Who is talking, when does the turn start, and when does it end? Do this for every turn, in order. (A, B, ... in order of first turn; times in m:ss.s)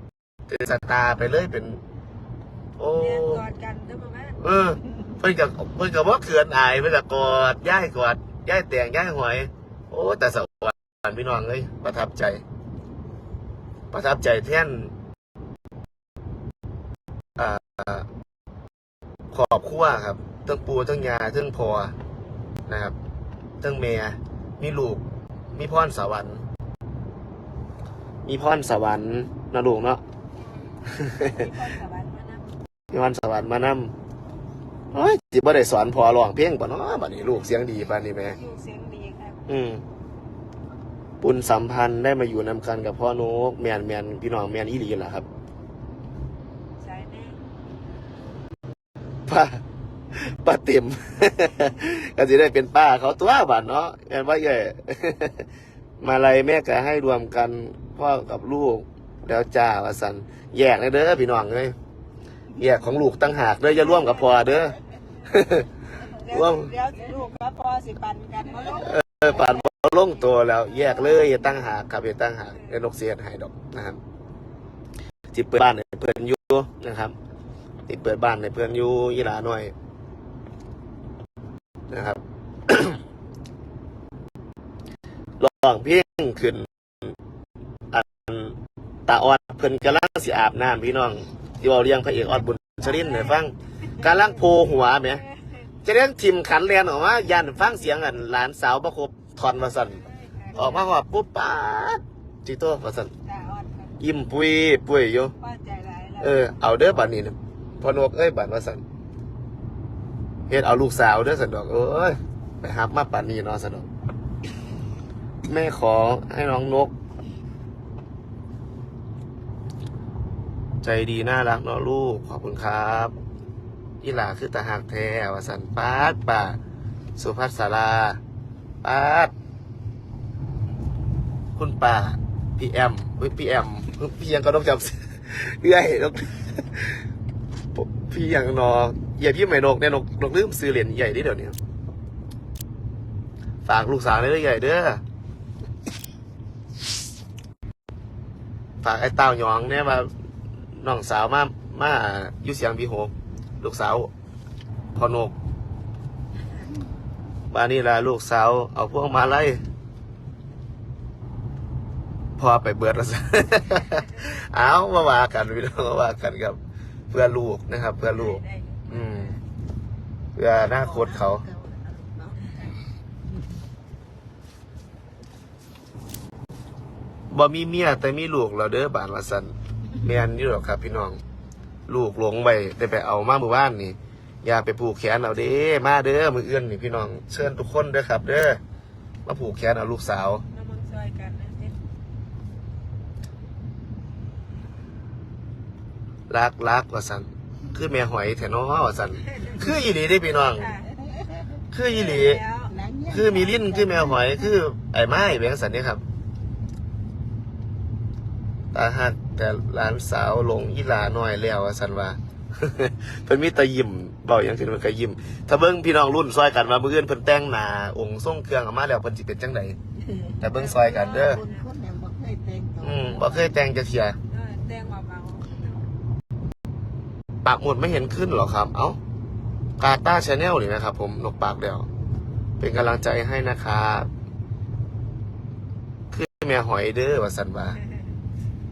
0:00.5-0:01.8 A
0:02.8-0:03.4 A
0:02.9-0:04.4 B
0:04.4-0:12.4 A
0:13.9-0:14.9 A
0:17.4-0:18.1 A
0:19.3-0:21.9 A
0:22.7-0:23.0 A
0:23.6-0:26.4 A
0:28.2-0:30.0 A
0:30.9-0:31.5 A
0:30.9-0:32.6 B
0:32.9-0:33.9 A
0:34.9-0:38.4 A
0:37.1-0:39.5 B
0:39.5-0:39.8 A
0:41.2-0:45.3 A
0:46.8-0:47.4 B
0:49.3-0:49.6 A
0:50.1-0:55.4 A
0:56.0-1:01.7 A
1:02.6-1:05.7 A
1:03.9-1:04.3 B
1:06.0-1:09.6 B
1:06.3-1:06.7 A
1:08.7-1:14.0 A
1:12.5-1:12.8 B
1:15.3-1:17.1 A
1:17.9-1:19.7 A
1:21.9-1:23.0 A
1:25.4-1:26.7 A
1:27.9-1:35.2 A
1:35.2-1:35.6 B
1:35.8-1:40.0 A
1:39.9-1:40.9 B
1:40.5-1:43.1 A
1:43.2-1:44.0 B
1:44.0-1:45.3 A
1:45.4-1:46.5 B
1:46.2-1:48.8 A
1:50.5-1:53.9 A
1:55.4-1:56.9 A
2:00.8-2:03.1 A
2:04.0-2:06.6 A
2:07.2-2:08.2 A
2:08.8-2:09.3 A
2:11.6-2:17.0 A
2:17.7-2:21.5 A
2:23.6-2:25.0 A
2:28.8-2:30.1 A
2:30.8-2:34.1 A
2:34.9-2:35.3 A
2:37.5-2:39.6 A
2:42.4-2:46.6 A
2:47.1-2:49.4 A
2:48.0-2:49.4 B
2:50.3-2:51.5 A
2:50.8-2:52.4 C
2:52.4-2:52.7 B
2:57.3-3:01.2 A
3:01.9-3:08.6 A
3:09.2-3:10.4 A
3:10.5-3:11.8 B
3:16.3-3:20.7 A
3:20.5-3:21.0 B
3:21.7-3:22.4 A
3:21.8-3:22.9 B
3:22.7-3:23.9 C
3:23.1-3:26.0 A
3:28.7-3:39.8 A
3:40.4-3:41.4 A
3:40.5-3:41.7 B
3:41.0-3:43.2 C
3:42.8-3:44.2 A
3:44.3-3:45.9 B
3:47.4-3:49.0 A
3:49.8-3:51.9 A
3:52.6-3:54.1 A
3:56.1-3:57.8 A